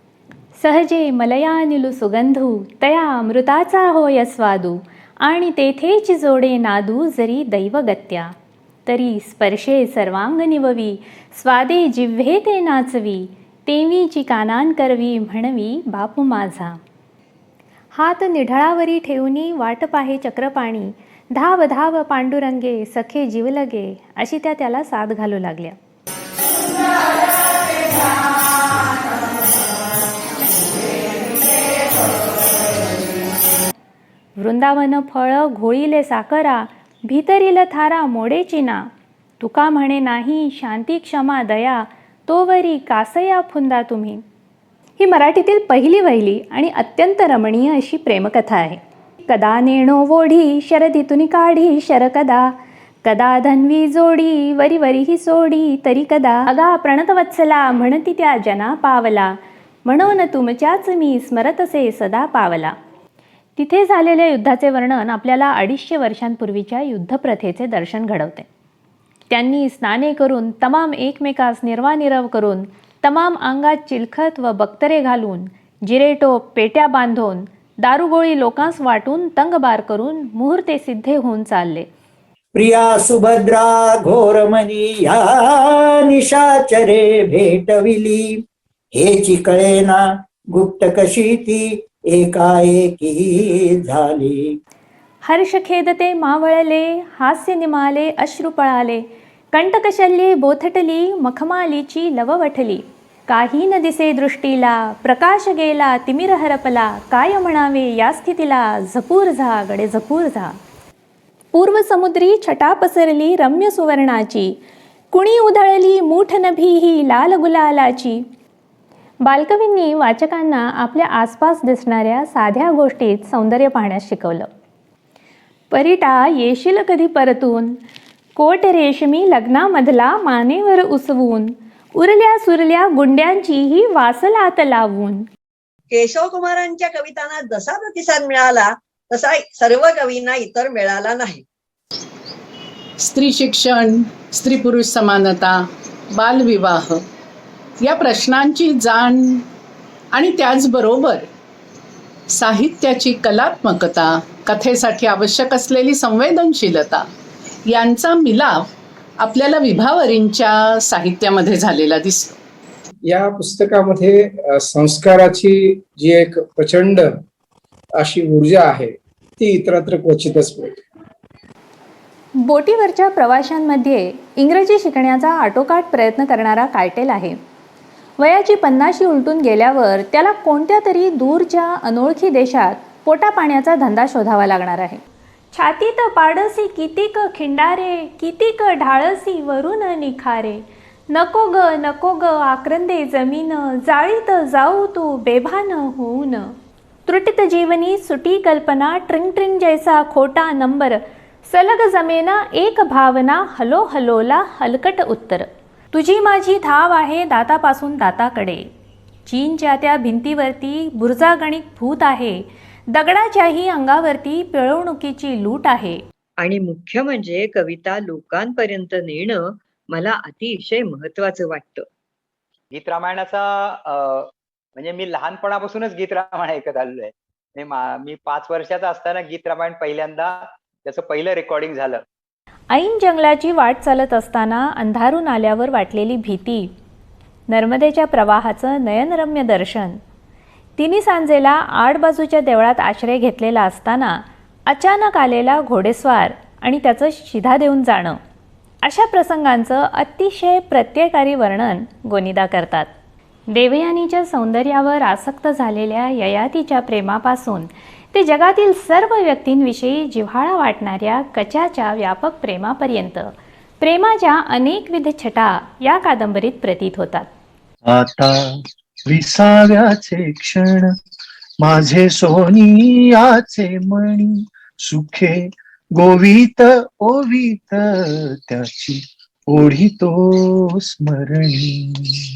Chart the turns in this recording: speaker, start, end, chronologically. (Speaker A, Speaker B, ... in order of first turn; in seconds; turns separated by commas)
Speaker A: 0.6-8.3, Speaker A: 8.9-16.8, Speaker A: 17.9-25.8, Speaker A: 34.4-38.9, Speaker A: 39.4-44.2, Speaker A: 45.0-62.7, Speaker A: 63.6-68.5, Speaker A: 69.3-81.9, Speaker B: 82.5-85.3, Speaker B: 86.0-88.3, Speaker B: 89.0-90.0, Speaker B: 90.6-94.5, Speaker A: 95.2-110.6, Speaker A: 111.5-114.6, Speaker A: 115.1-118.2, Speaker A: 119.2-124.5, Speaker A: 125.7-127.8, Speaker A: 128.4-135.3, Speaker C: 135.9-141.4, Speaker D: 143.0-145.6, Speaker D: 146.2-147.0, Speaker D: 147.8-149.4, Speaker D: 150.2-151.2, Speaker D: 152.3-157.1, Speaker D: 157.7-158.7, Speaker D: 159.2-162.3, Speaker E: 163.1-167.1, Speaker E: 168.0-170.8, Speaker A: 172.4-177.4, Speaker A: 178.2-185.0, Speaker A: 185.5-196.5, Speaker A: 197.1-208.7, Speaker A: 209.3-216.0, Speaker F: 216.4-221.9, Speaker G: 222.7-232.0, Speaker A: 232.7-236.7, Speaker A: 237.5-240.0, Speaker A: 240.8-248.2, Speaker A: 248.8-252.9, Speaker A: 253.5-267.3, Speaker H: 267.9-268.4, Speaker H: 269.1-270.9, Speaker H: 271.6-274.3, Speaker H: 274.9-275.4, Speaker H: 276.0-277.9, Speaker H: 278.5-281.9